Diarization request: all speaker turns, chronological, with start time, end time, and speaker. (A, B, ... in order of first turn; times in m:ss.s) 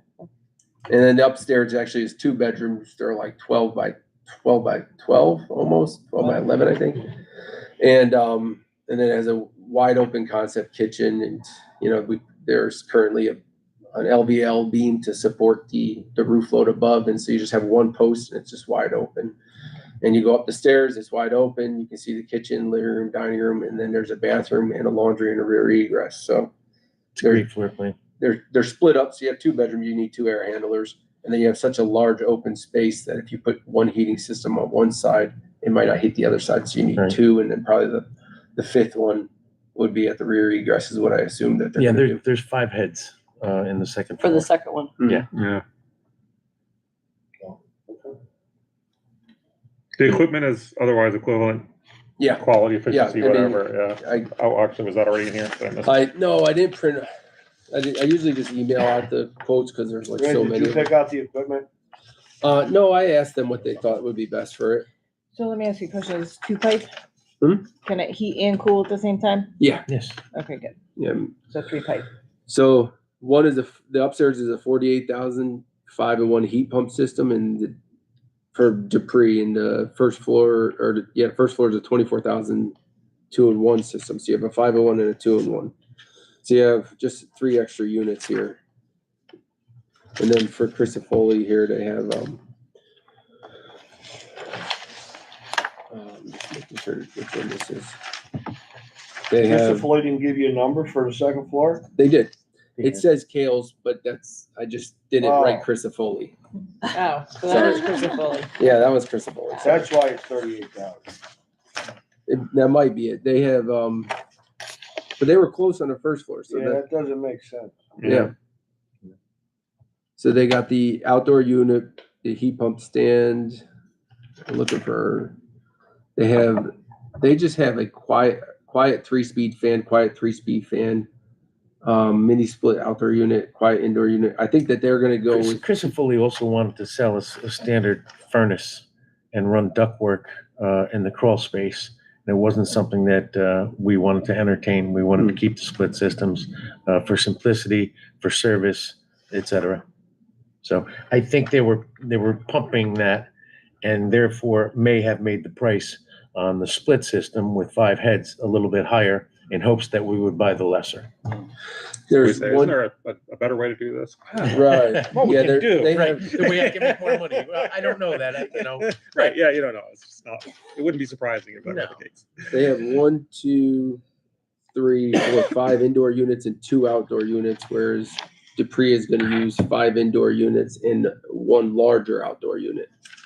0:00.9-0:07.1 A
0:07.8-0:13.4 A
0:13.9-0:19.4 A
0:20.0-0:26.5 A
0:27.2-0:28.0 B
0:27.2-0:27.5 A
0:28.2-0:42.2 A
0:41.8-0:44.5 B
0:45.3-0:45.6 C
0:47.4-0:48.1 D
0:50.0-0:51.7 C
0:52.2-0:54.3 A
0:52.3-0:56.0 C
0:55.8-0:57.1 A
0:57.7-1:00.9 A
1:00.2-1:01.7 D
1:02.4-1:04.9 A
1:05.4-1:06.9 E
1:07.4-1:07.7 A
1:07.8-1:09.5 E
1:09.6-1:09.9 A
1:09.9-1:10.2 B
1:10.3-1:10.8 E
1:11.0-1:11.4 A
1:11.5-1:12.1 E
1:12.5-1:17.8 A
1:18.5-1:22.8 A
1:23.3-1:25.7 A
1:26.4-1:28.6 A
1:30.2-1:32.4 A
1:35.9-1:38.0 A
1:39.3-1:39.9 A
1:39.4-1:41.9 D
1:41.9-1:46.4 A
1:42.8-1:43.0 B
1:45.2-1:45.7 D
1:46.9-1:48.5 E
1:47.4-1:49.9 A
1:49.6-1:51.0 D
1:52.3-1:54.1 A
1:55.2-1:56.8 A
1:56.5-1:58.0 D
1:58.0-1:58.3 C
1:58.0-1:58.3 A
2:00.2-2:03.6 A
2:04.5-2:05.4 A
2:06.2-2:11.1 A
2:11.8-2:15.6 A
2:15.3-2:29.8 B
2:30.6-2:33.3 B
2:33.8-2:41.1 B
2:42.1-2:42.8 A
2:42.2-2:47.6 C
2:44.4-2:49.4 B
2:44.5-2:46.3 A
2:49.0-2:52.8 C
2:51.6-2:52.0 B
2:52.5-2:54.0 A
2:54.7-3:02.9 A